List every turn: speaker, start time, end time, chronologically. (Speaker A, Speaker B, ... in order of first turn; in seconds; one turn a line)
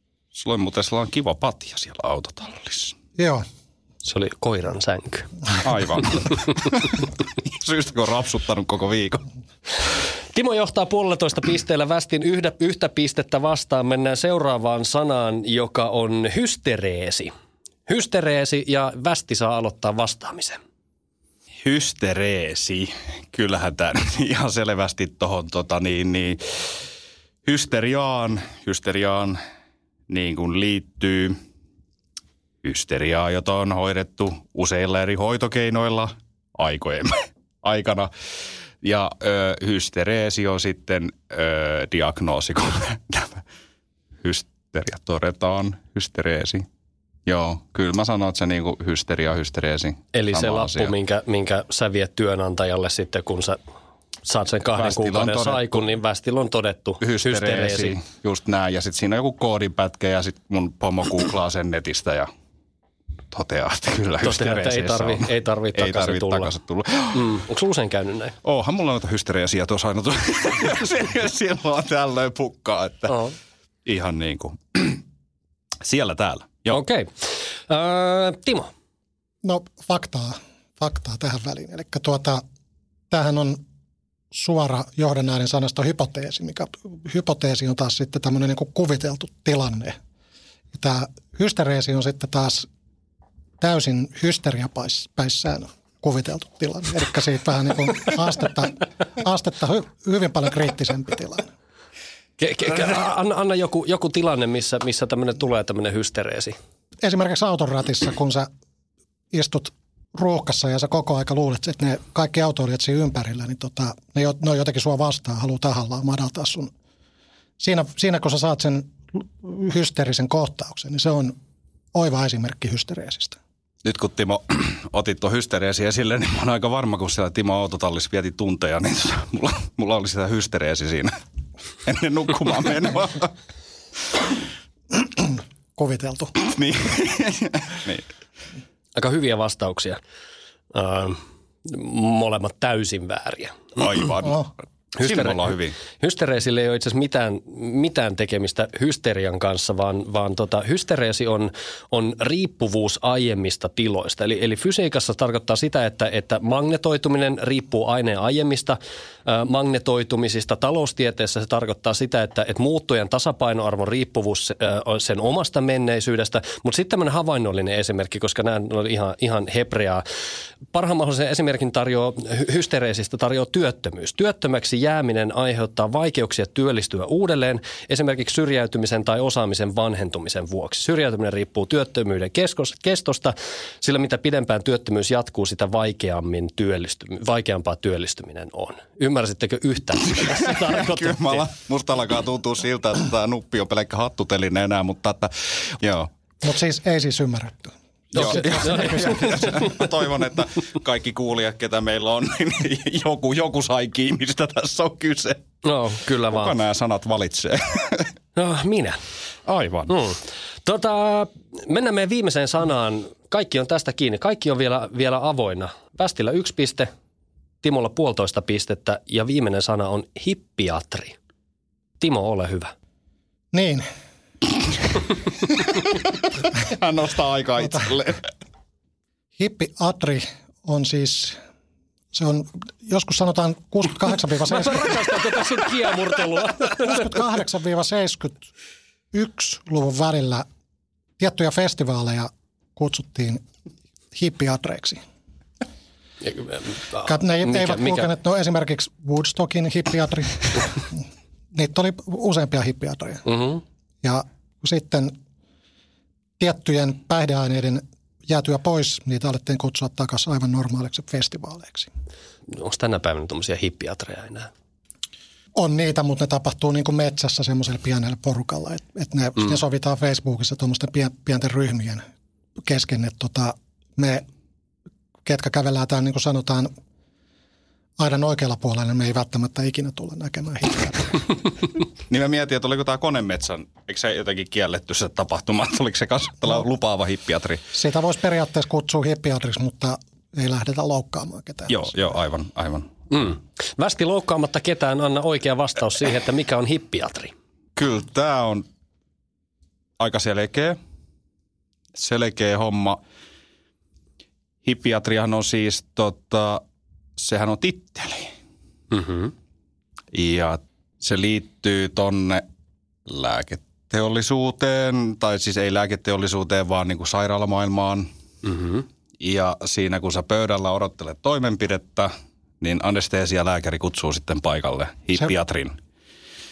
Speaker A: 0.3-3.0
Speaker B: 3.2-3.4
Speaker C: 4.0-5.3
Speaker A: 5.6-9.2
Speaker C: 10.3-17.3
Speaker C: 17.9-20.6
Speaker A: 21.6-26.8
Speaker A: 27.4-29.4
Speaker A: 30.1-31.4
Speaker A: 32.6-38.1
Speaker A: 38.8-43.4
Speaker A: 44.2-46.6
Speaker A: 47.3-50.9
Speaker C: 50.1-53.6
Speaker C: 54.2-58.0
Speaker A: 54.8-55.8
Speaker A: 57.0-62.3
Speaker A: 63.3-67.4
Speaker C: 64.2-66.5
Speaker C: 67.1-68.3
Speaker A: 68.4-73.2
Speaker C: 73.1-73.3
Speaker A: 73.8-75.0
Speaker A: 75.8-76.8
Speaker C: 76.7-78.7
Speaker B: 79.4-82.4
Speaker B: 83.1-83.6
Speaker B: 84.3-90.0
Speaker B: 90.7-92.7
Speaker B: 93.6-101.5
Speaker C: 102.4-106.5
Speaker B: 107.0-108.5
Speaker B: 109.3-116.7
Speaker B: 117.6-121.3
Speaker B: 121.9-123.4
Speaker A: 123.8-131.1
Speaker A: 131.8-133.3
Speaker B: 135.2-136.3
Speaker A: 136.4-138.0
Speaker C: 138.9-140.0
Speaker C: 140.7-143.8
Speaker A: 143.8-145.7
Speaker B: 144.2-144.5
Speaker C: 145.0-170.0
Speaker C: 170.7-191.5
Speaker A: 190.1-196.1
Speaker B: 196.4-199.2
Speaker A: 198.1-205.4
Speaker C: 198.1-199.5
Speaker C: 205.6-206.5
Speaker A: 206.3-208.1
Speaker C: 208.3-209.0
Speaker A: 209.4-209.9
Speaker C: 209.9-216.9
Speaker C: 217.6-221.1
Speaker C: 222.0-222.7
Speaker B: 223.5-223.8
Speaker A: 225.6-228.3
Speaker B: 229.4-231.4
Speaker B: 232.1-235.0
Speaker C: 234.5-237.1
Speaker B: 236.8-238.4
Speaker B: 239.1-240.4
Speaker B: 241.2-243.4
Speaker B: 244.1-245.0
Speaker C: 246.2-248.1
Speaker B: 247.0-253.3
Speaker C: 253.2-253.6
Speaker B: 254.0-255.1
Speaker B: 256.4-261.9
Speaker C: 262.5-264.5
Speaker B: 265.6-272.0
Speaker B: 272.6-274.2
Speaker B: 275.2-276.7
Speaker B: 278.0-281.4
Speaker A: 282.1-287.6
Speaker B: 287.7-292.0
Speaker A: 291.7-292.9
Speaker C: 293.1-297.3
Speaker A: 297.8-298.6
Speaker A: 300.0-300.8
Speaker A: 301.9-303.0
Speaker A: 304.6-306.6
Speaker A: 307.2-308.3
Speaker C: 308.9-309.3
Speaker A: 310.1-312.4
Speaker A: 313.1-318.1
Speaker A: 319.2-325.8